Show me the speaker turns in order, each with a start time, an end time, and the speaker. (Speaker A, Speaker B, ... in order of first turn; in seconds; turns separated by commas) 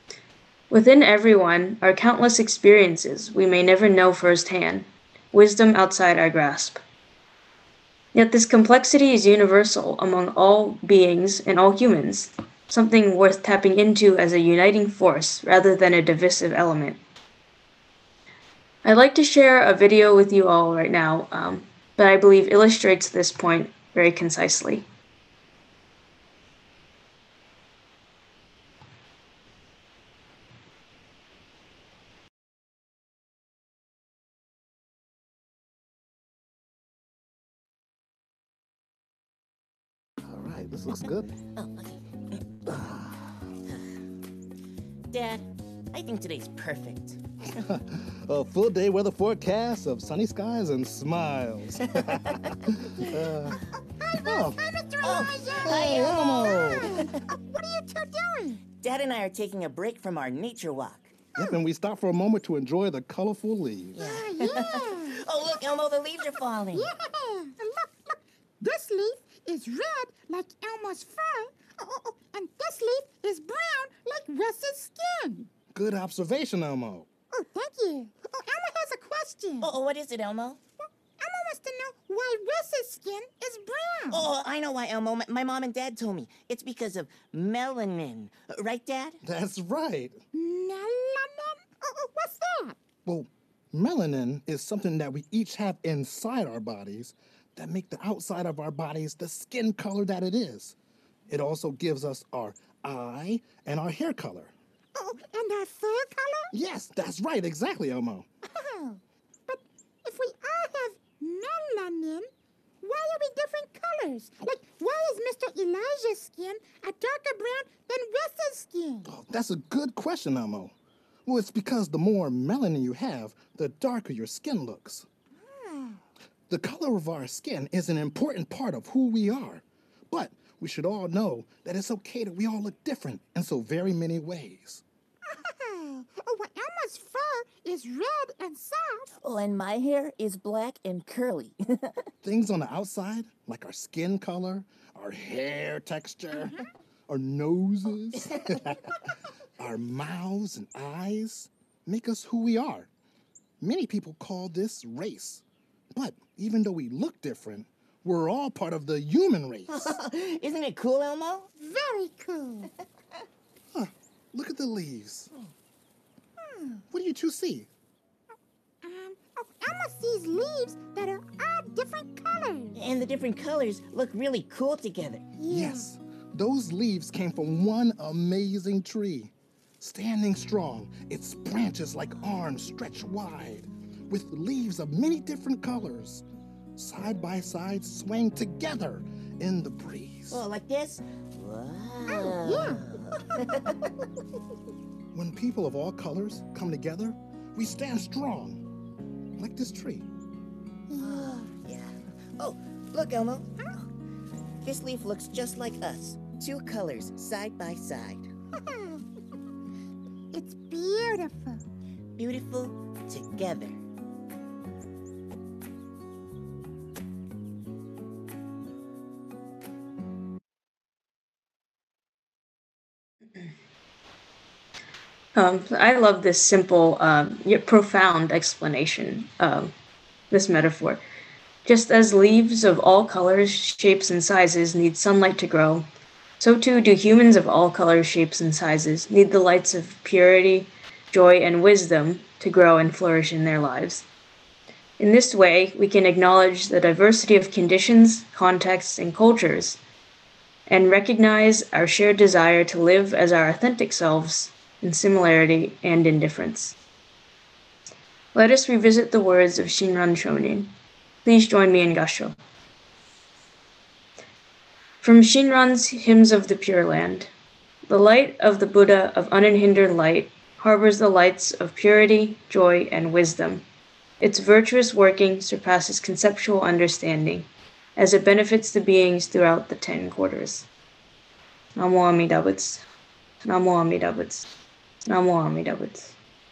Speaker A: 0.7-6.8, Speaker A: 8.1-17.0, Speaker A: 18.8-24.9, Speaker B: 40.2-41.3, Speaker C: 41.5-42.4, Speaker B: 42.7-43.4, Speaker C: 45.1-47.2, Speaker B: 47.6-53.6, Speaker D: 54.0-58.6, Speaker B: 54.2-54.6, Speaker C: 55.0-57.1, Speaker B: 55.7-56.9, Speaker C: 58.7-61.3, Speaker B: 61.4-64.0, Speaker C: 64.0-66.9, Speaker D: 64.0-65.2, Speaker D: 66.7-75.5, Speaker B: 75.7-77.1, Speaker D: 77.3-79.7, Speaker C: 79.6-80.6, Speaker D: 81.2-84.3, Speaker C: 84.1-89.2, Speaker B: 89.2-90.2, Speaker D: 90.3-92.8, Speaker B: 93.0-100.8, Speaker B: 101.3-104.5, Speaker D: 105.0-106.5, Speaker B: 106.5-108.3, Speaker D: 108.5-112.3, Speaker D: 112.8-119.1, Speaker B: 119.0-120.7, Speaker B: 121.3-125.1, Speaker D: 125.5-126.0, Speaker B: 126.5-134.8, Speaker D: 135.3-139.1, Speaker C: 139.2-142.1, Speaker B: 142.2-146.6, Speaker B: 147.1-148.8, Speaker B: 149.6-152.9, Speaker B: 153.6-155.4, Speaker B: 155.9-159.9, Speaker C: 159.7-161.5, Speaker D: 161.6-162.7, Speaker B: 163.7-165.3, Speaker D: 166.4-166.8, Speaker B: 166.9-167.7, Speaker D: 168.8-172.8, Speaker C: 172.8-175.3, Speaker D: 175.4-175.9, Speaker B: 175.5-186.2, Speaker B: 186.8-190.4, Speaker C: 190.3-194.0, Speaker D: 192.1-192.8, Speaker B: 195.1-198.6, Speaker B: 199.4-200.1, Speaker C: 200.9-203.8, Speaker D: 201.0-201.5, Speaker C: 204.6-208.3, Speaker D: 208.6-209.0, Speaker D: 210.3-211.6, Speaker C: 212.2-213.8, Speaker A: 225.3-229.7, Speaker A: 230.3-231.0, Speaker A: 231.7-235.9, Speaker A: 236.4-244.1, Speaker A: 245.0-249.8, Speaker A: 250.7-256.8, Speaker A: 258.3-260.7, Speaker A: 261.2-262.4, Speaker A: 265.0-267.3, Speaker A: 267.9-273.6, Speaker A: 274.2-280.7, Speaker A: 281.8-282.9, Speaker A: 283.4-284.5, Speaker A: 285.1-286.2